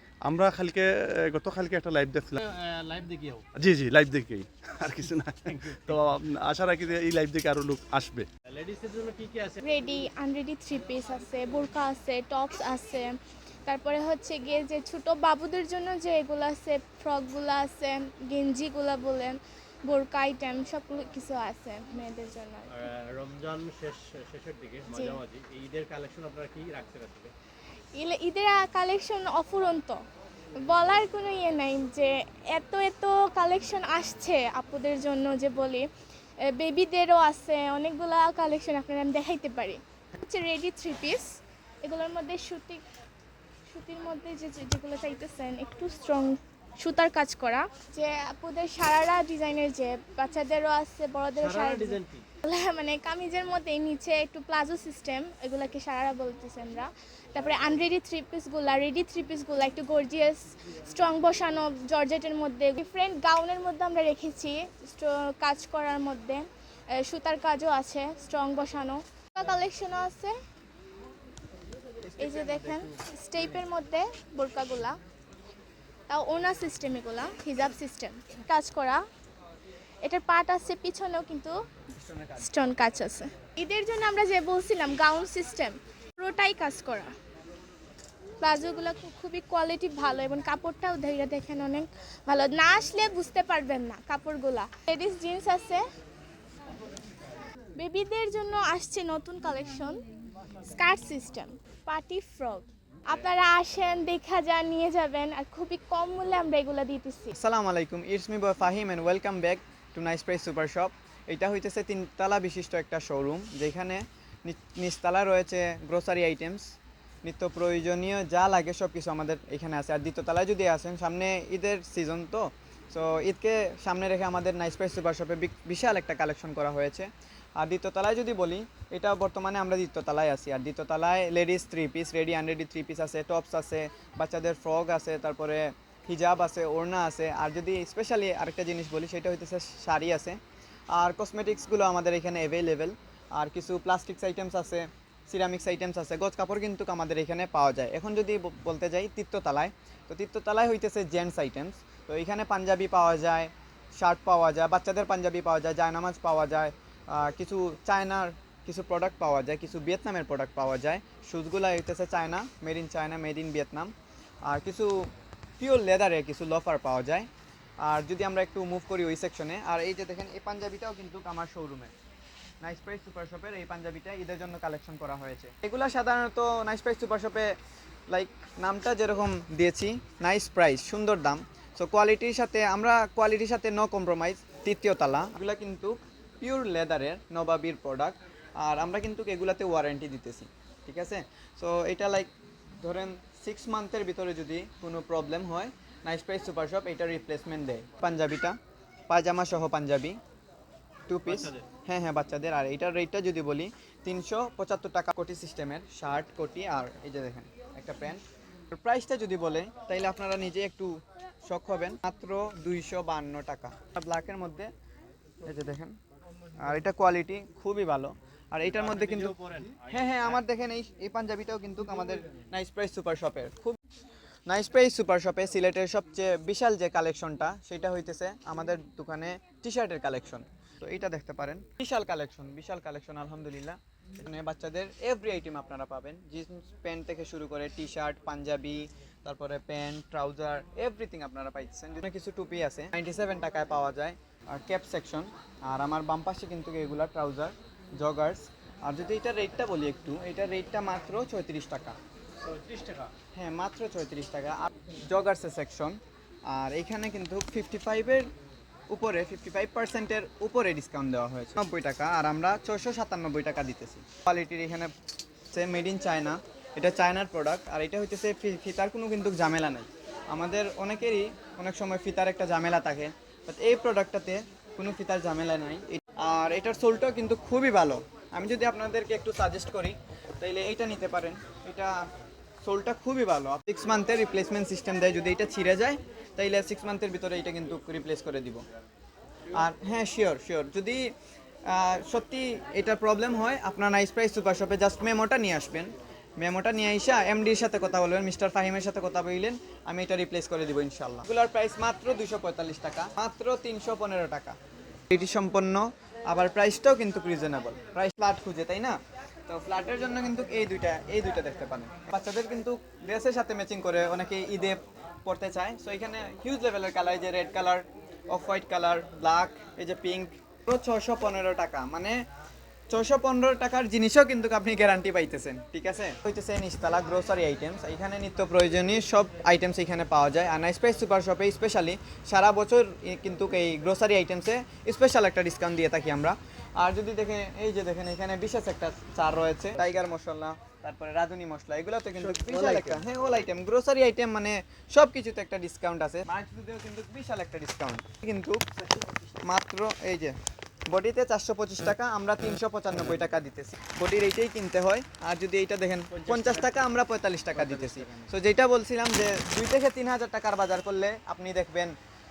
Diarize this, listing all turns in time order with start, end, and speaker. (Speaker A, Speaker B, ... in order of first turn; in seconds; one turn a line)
Speaker A: 0.2-2.4
Speaker B: 2.4-3.5
Speaker A: 3.5-8.3
Speaker B: 8.5-9.6
Speaker C: 9.6-13.1
Speaker C: 13.7-19.4
Speaker C: 19.9-22.8
Speaker B: 22.7-27.3
Speaker C: 24.9-25.2
Speaker C: 27.9-30.0
Speaker C: 30.7-35.8
Speaker C: 36.5-42.8
Speaker C: 43.7-66.4
Speaker B: 51.3-52.2
Speaker C: 67.0-70.3
Speaker D: 72.0-73.0
Speaker C: 72.2-74.9
Speaker C: 76.1-79.0
Speaker C: 80.0-81.5
Speaker D: 82.0-82.4
Speaker C: 82.4-87.1
Speaker C: 88.4-95.8
Speaker C: 97.8-100.0
Speaker C: 100.6-107.3
Speaker D: 107.3-116.7
Speaker D: 117.2-140.4
Speaker D: 140.9-163.9
Speaker D: 164.4-167.3
Speaker D: 167.8-171.9
Speaker D: 172.6-177.5
Speaker D: 178.1-192.3
Speaker D: 192.8-198.6
Speaker D: 199.1-200.2
Speaker D: 201.1-214.7
Speaker B: 201.3-201.6
Speaker D: 215.4-215.9
Speaker D: 216.6-219.3
Speaker B: 218.7-220.4
Speaker D: 219.8-223.8
Speaker D: 224.5-251.9
Speaker B: 252.4-253.1
Speaker D: 253.3-256.0
Speaker D: 256.5-258.3
Speaker D: 258.9-264.9
Speaker D: 265.5-281.9
Speaker D: 282.6-288.6
Speaker D: 289.5-291.1
Speaker D: 291.7-304.6
Speaker D: 305.1-309.0
Speaker D: 309.5-322.2
Speaker D: 322.9-348.7
Speaker D: 349.4-350.4
Speaker D: 350.9-361.9